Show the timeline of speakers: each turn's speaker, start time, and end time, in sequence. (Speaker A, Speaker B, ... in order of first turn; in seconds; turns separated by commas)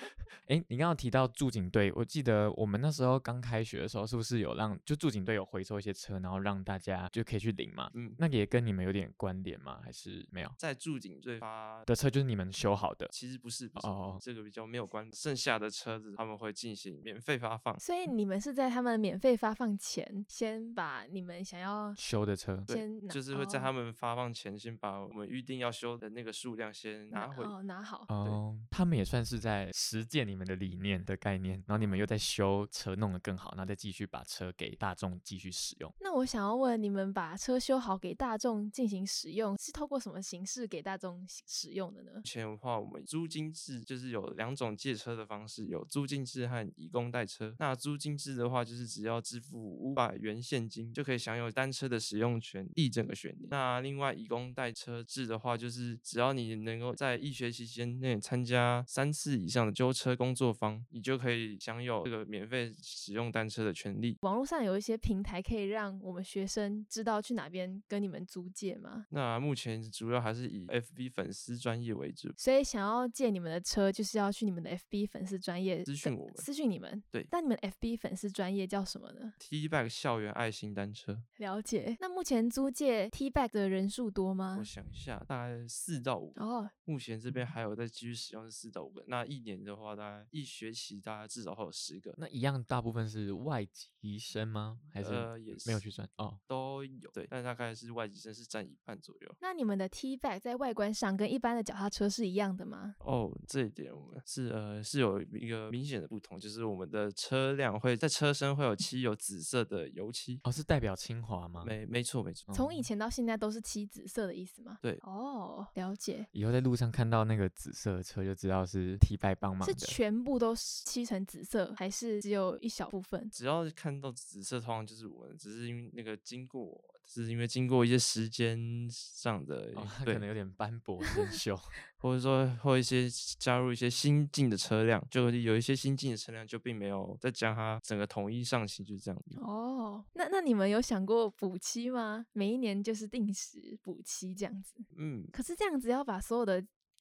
Speaker A: 0.4-10.6, Speaker B: 7.9-8.2, Speaker B: 10.6-11.9, Speaker A: 11.9-13.1, Speaker B: 13.1-17.8, Speaker A: 13.8-14.2, Speaker C: 17.8-22.0, Speaker A: 22.0-22.7, Speaker B: 22.7-27.5, Speaker C: 22.7-23.7, Speaker C: 27.1-28.1, Speaker A: 28.1-35.9, Speaker C: 36.0-42.2, Speaker B: 42.2-64.2, Speaker C: 64.2-69.0, Speaker B: 69.1-72.4, Speaker C: 72.4-79.3, Speaker B: 75.9-76.5, Speaker B: 79.4-81.2, Speaker C: 81.4-84.7, Speaker B: 84.5-92.2, Speaker C: 86.4-86.7, Speaker A: 92.2-96.4, Speaker B: 95.0-95.8, Speaker B: 96.5-99.4, Speaker C: 99.4-103.0, Speaker B: 103.0-110.4, Speaker A: 110.4-111.7, Speaker B: 111.6-112.5, Speaker A: 112.5-112.9, Speaker C: 112.5-116.3, Speaker A: 116.3-120.0, Speaker C: 119.6-123.3, Speaker B: 123.3-130.2, Speaker A: 129.7-131.7, Speaker B: 132.0-139.4, Speaker C: 139.4-146.7, Speaker B: 144.9-145.3